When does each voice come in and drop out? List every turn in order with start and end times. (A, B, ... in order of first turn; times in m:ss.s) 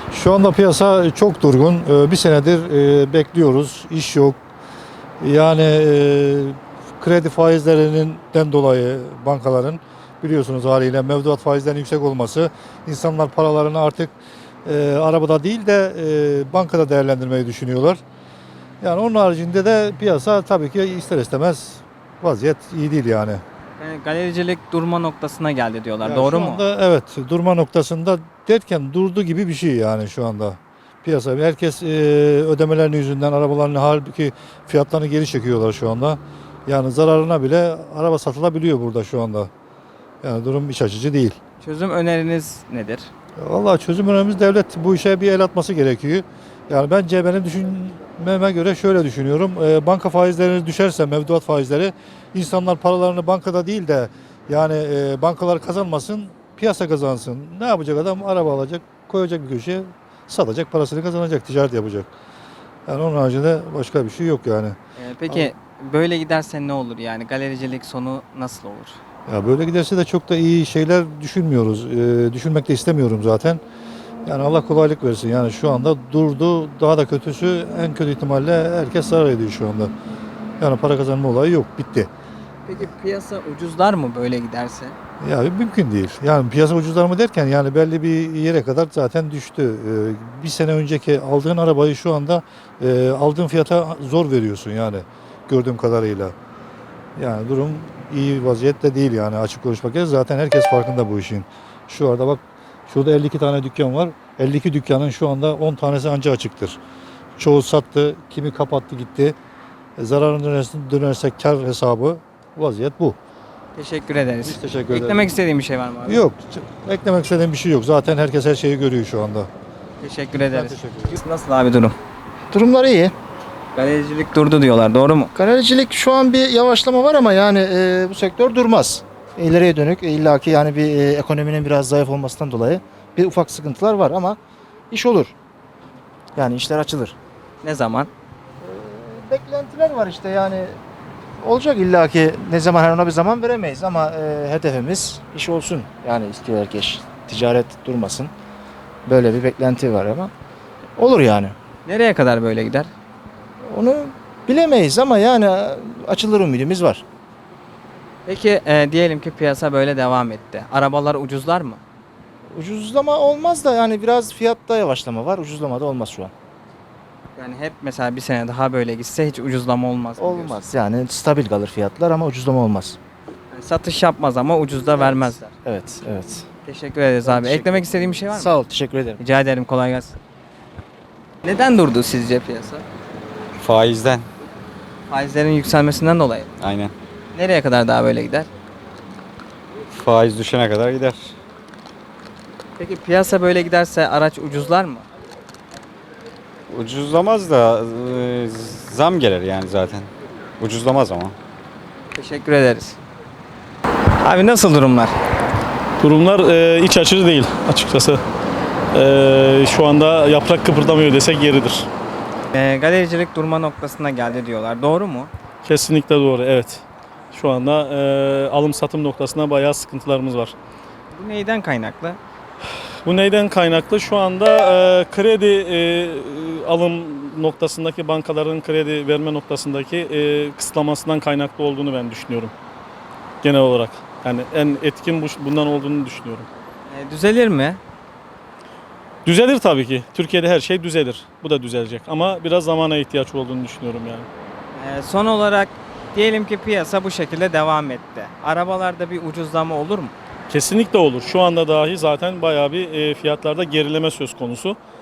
0:00.1-0:04.4 A
0:05.2-0:14.1 A
0:14.7-0:18.0 A
0:18.8-0:23.4 A
0:23.8-0:26.6 B
0:26.0-0:39.5 A
0:40.2-0:41.4 A
0:41.6-0:43.1 B
0:43.4-1:02.1 A
1:02.9-1:04.8 A
1:05.0-1:09.0 B
1:09.3-1:13.6 A
1:14.3-1:19.9 A
1:20.6-1:22.1 A
1:22.7-1:25.0 B
1:25.2-1:36.4 A
1:37.2-1:46.8 A
1:47.4-1:49.4 A
1:50.0-1:53.2 A
1:53.8-1:56.2 B
1:54.4-1:55.3 A
1:56.1-1:59.5 A
2:00.0-2:02.0 B
2:00.4-2:01.2 A
2:02.5-2:03.1 C
2:03.8-2:05.3 B
2:05.4-2:14.4 C
2:14.9-2:15.3 C
2:16.4-2:17.2 C
2:17.6-2:18.1 B
2:18.6-2:20.7 C
2:21.4-2:28.3 C
2:29.1-2:30.3 C
2:31.0-2:31.6 C
2:31.9-2:32.9 B
2:33.7-2:37.0 C
2:38.3-2:41.8 B
2:42.5-2:46.3 C
2:47.4-2:50.6 B
2:50.2-2:53.0 C
2:53.5-2:55.5 B
2:55.6-2:56.4 C
2:56.6-2:58.6 B
2:57.2-2:59.2 C
2:59.2-3:00.2 B
3:01.4-3:02.8 B
3:03.6-3:04.3 D
3:05.1-3:06.5 B
3:06.6-3:06.9 D
3:07.4-3:08.5 B
3:10.0-3:11.3 D
3:12.8-3:15.0 B
3:16.7-3:21.4 D
3:22.2-3:23.0 B
3:24.2-3:25.1 B
3:26.0-3:28.2 E
3:28.9-3:31.9 E
3:32.5-3:35.3 B
3:35.6-3:40.5 E
3:41.1-3:42.2 B
3:43.0-3:52.5 E
3:53.4-3:56.5 E
3:56.9-3:57.8 B
3:59.2-4:04.3 E
4:04.8-4:10.2 B
4:10.5-4:14.8 E